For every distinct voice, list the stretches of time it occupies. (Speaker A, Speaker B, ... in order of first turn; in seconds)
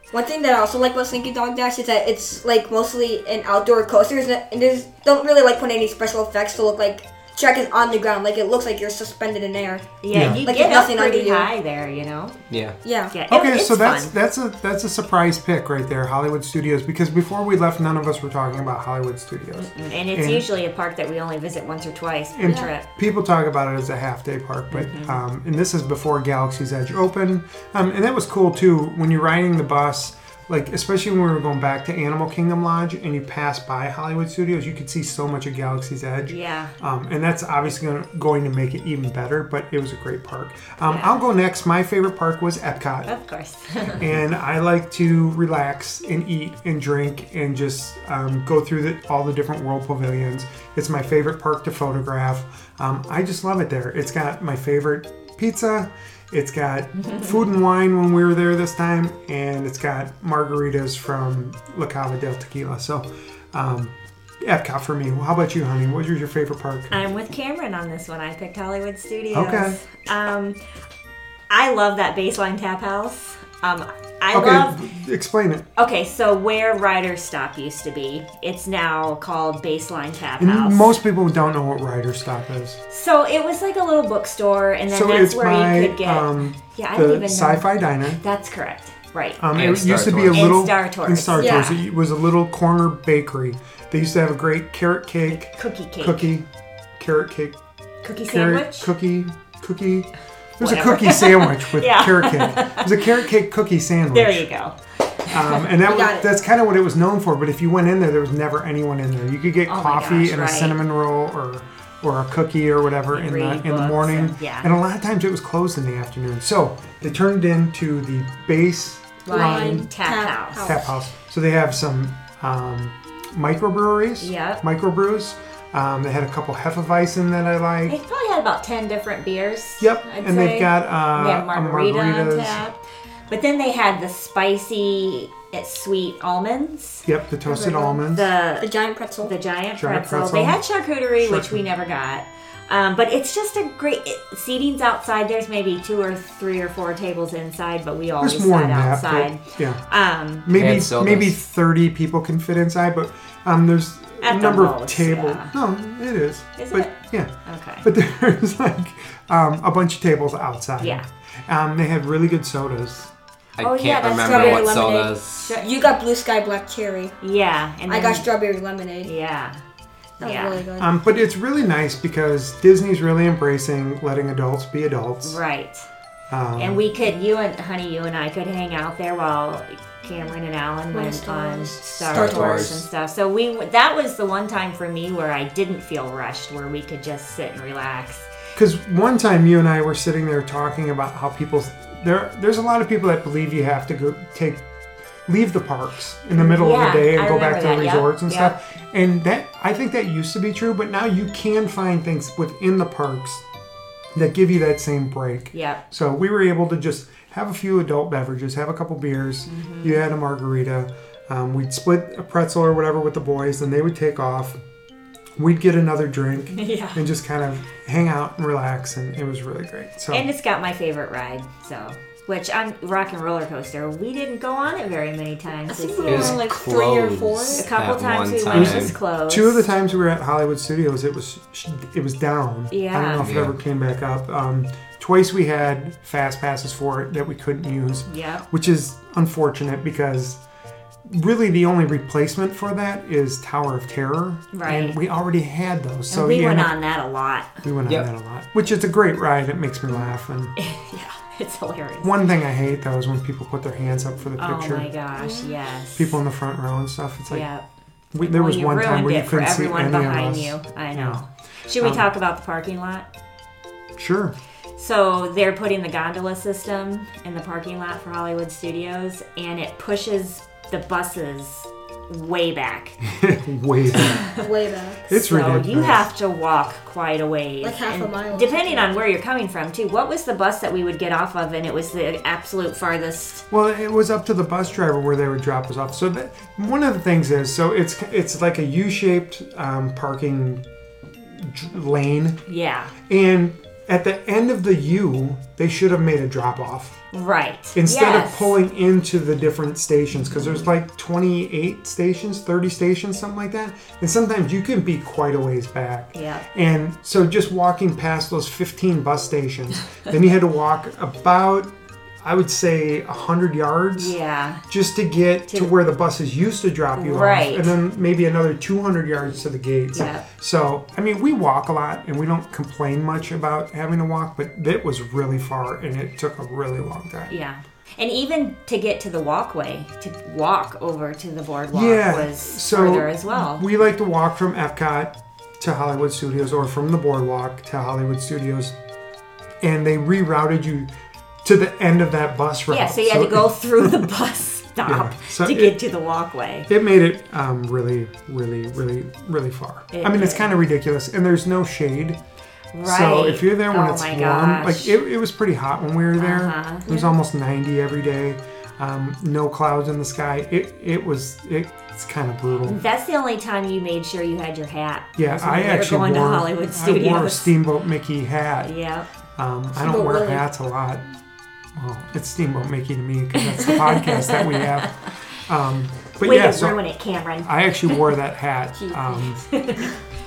Speaker A: 0.1-11.5, 12.8-13.2, 91.3-91.7, 105.8-106.3, 119.3-120.9, 137.4-138.0, 138.6-139.3, 164.2-167.2, 167.9-169.1, 170.2-170.9, 180.9-182.7, 225.7-227.7, 255.2-255.5, 274.3-275.0, 277.6-279.0, 369.8-370.4, 378.8-379.4
Speaker B: 10.0-12.4, 13.1-14.1, 19.6-22.9, 24.7-25.2, 36.3-36.7, 40.9-41.1, 43.1-44.0, 66.9-70.6, 71.5-74.8, 75.8-80.9, 82.9-89.4, 90.3-91.8, 95.3-96.3, 98.0-98.9, 100.6-103.2, 104.1-105.7, 109.7-110.8, 113.1-114.7, 119.3-120.8, 124.2-124.6, 127.9-137.1, 138.1-138.7, 139.2-150.5, 154.2-155.6, 156.6-157.9, 160.8-161.1, 163.6-165.8, 167.2-168.3, 169.0-169.6, 170.2-170.6, 175.2-175.9, 176.6-188.3, 196.4-198.6, 205.5-205.8, 209.5-210.0, 216.6-217.1, 220.1-226.4, 227.5-229.7, 232.7-233.3, 238.1-238.4, 244.5-245.0, 246.1-247.5, 250.6-252.2, 254.4-256.1, 257.3-257.6, 258.2-263.1, 264.8-273.0, 273.9-274.4, 275.1-283.4, 292.5-292.9, 297.1-298.6, 306.1-306.4, 314.0-314.6, 317.0-317.7, 319.9-320.3, 327.3-333.6, 342.7-346.7, 349.9-350.5, 352.7-355.0, 356.2-357.1, 362.6-367.5, 368.6-369.1, 373.4-375.1, 376.2-378.1, 379.5-379.9
Speaker C: 10.1-10.4, 13.3-20.5, 22.3-43.1, 44.0-66.9, 69.3-69.8, 74.3-75.7, 80.4-82.8, 84.9-88.2, 89.4-97.6, 98.3-104.5, 105.3-119.9, 120.6-128.0, 129.8-132.6, 137.1-138.3, 139.8-140.6, 141.2-141.6, 148.2-149.8, 150.4-163.1, 170.8-175.4, 176.3-176.8, 188.6-194.7, 195.3-203.4, 204.1-214.6, 215.4-220.3, 228.5-240.4, 241.1-246.8, 247.6-250.5, 252.0-254.9, 256.0-257.5, 258.1-261.2, 261.8-262.1, 264.0-264.4, 273.0-274.2, 275.1-276.1, 283.5-290.6, 291.2-292.4, 293.1-297.0, 297.8-314.2, 314.7-327.3, 331.7-338.8, 339.6-340.9, 341.4-344.1, 344.8-345.8, 346.7-352.2, 352.8-362.8, 365.2-368.7, 369.4-371.0, 371.8-376.8, 377.4-379.5
Speaker D: 12.5-12.8, 89.5-90.5, 150.5-151.3, 163.6-165.6, 182.0-182.8, 226.1-228.9, 233.2-233.5